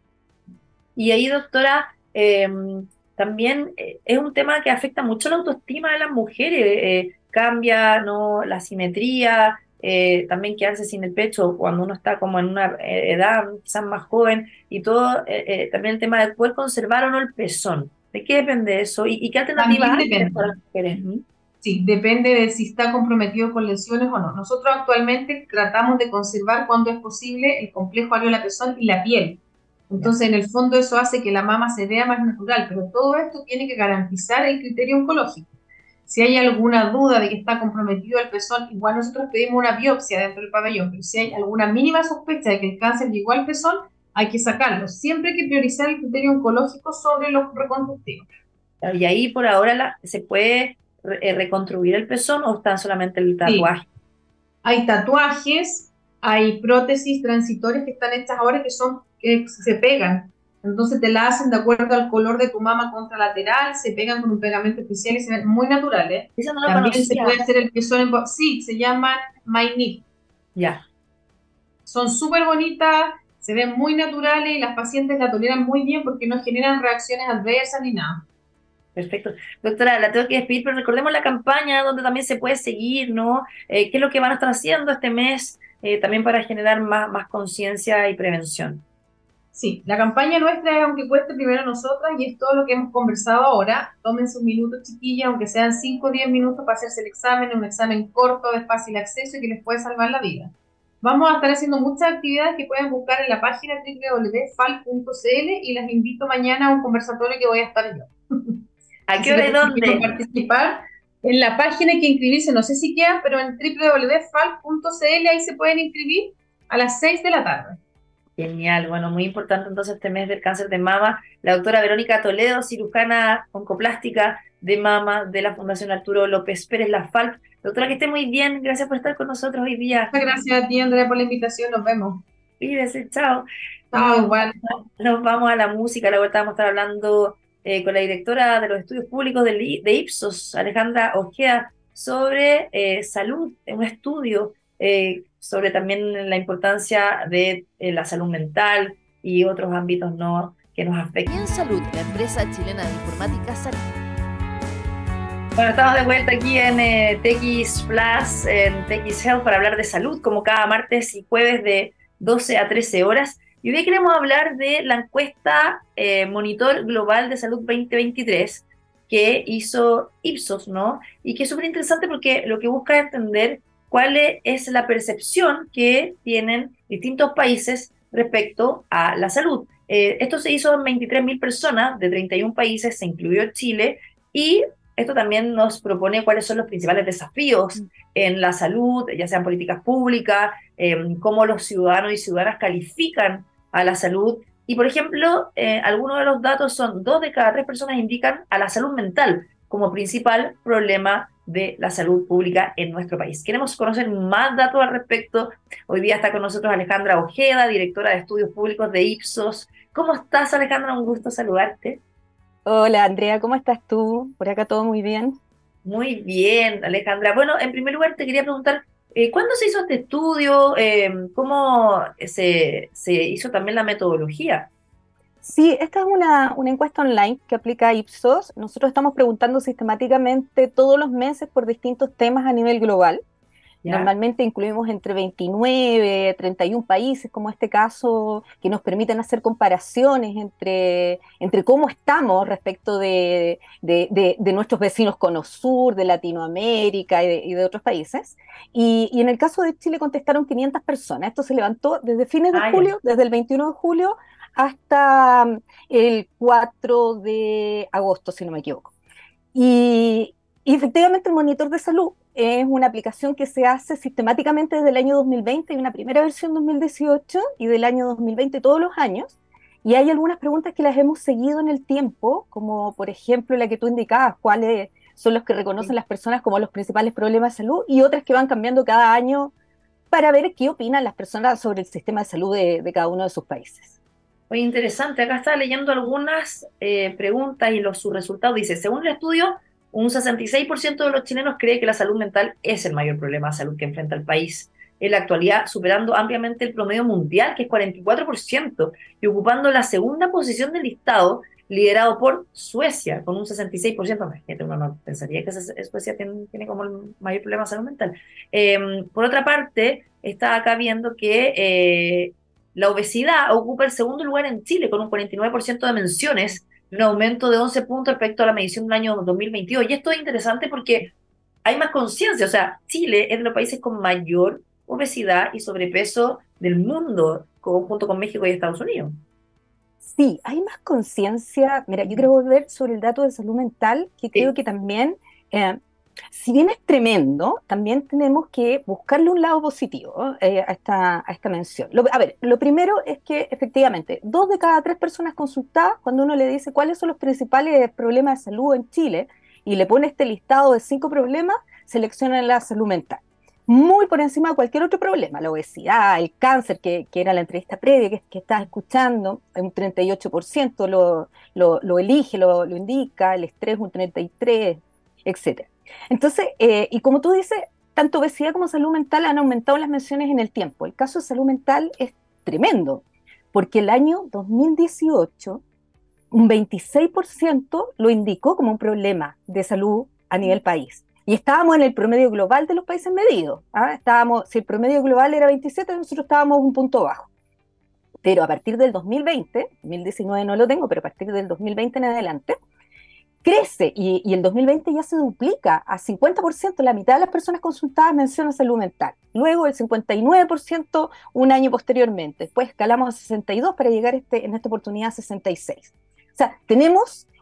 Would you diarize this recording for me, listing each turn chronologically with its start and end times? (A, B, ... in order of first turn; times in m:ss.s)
0:01.0-0:21.2 A
0:19.6-0:20.5 B
0:21.6-0:35.5 B
0:36.1-0:48.3 B
0:48.8-0:53.9 A
0:54.6-1:10.0 B
1:06.4-1:07.4 A
1:10.5-1:10.8 A
1:11.8-1:18.2 B
1:18.9-1:28.8 A
1:29.5-1:48.6 B
1:49.1-1:50.1 A
1:49.2-1:57.8 B
1:58.4-2:10.1 A
2:10.1-2:12.2 B
2:12.6-2:31.4 A
2:13.9-2:14.8 B
2:31.2-2:33.8 C
2:35.6-3:32.0 A
3:32.6-3:35.4 D
3:35.8-3:44.7 A
3:45.4-3:53.2 D
3:53.8-3:54.1 A
3:53.8-4:18.9 D
4:12.5-4:12.9 A
4:19.5-4:39.5 D
4:40.1-4:44.0 D
4:44.5-5:21.1 A
5:21.6-5:29.2 A
5:30.0-5:35.8 D
5:36.3-6:15.6 D
6:16.3-6:27.3 D
6:28.2-6:32.6 D
6:33.4-6:47.3 D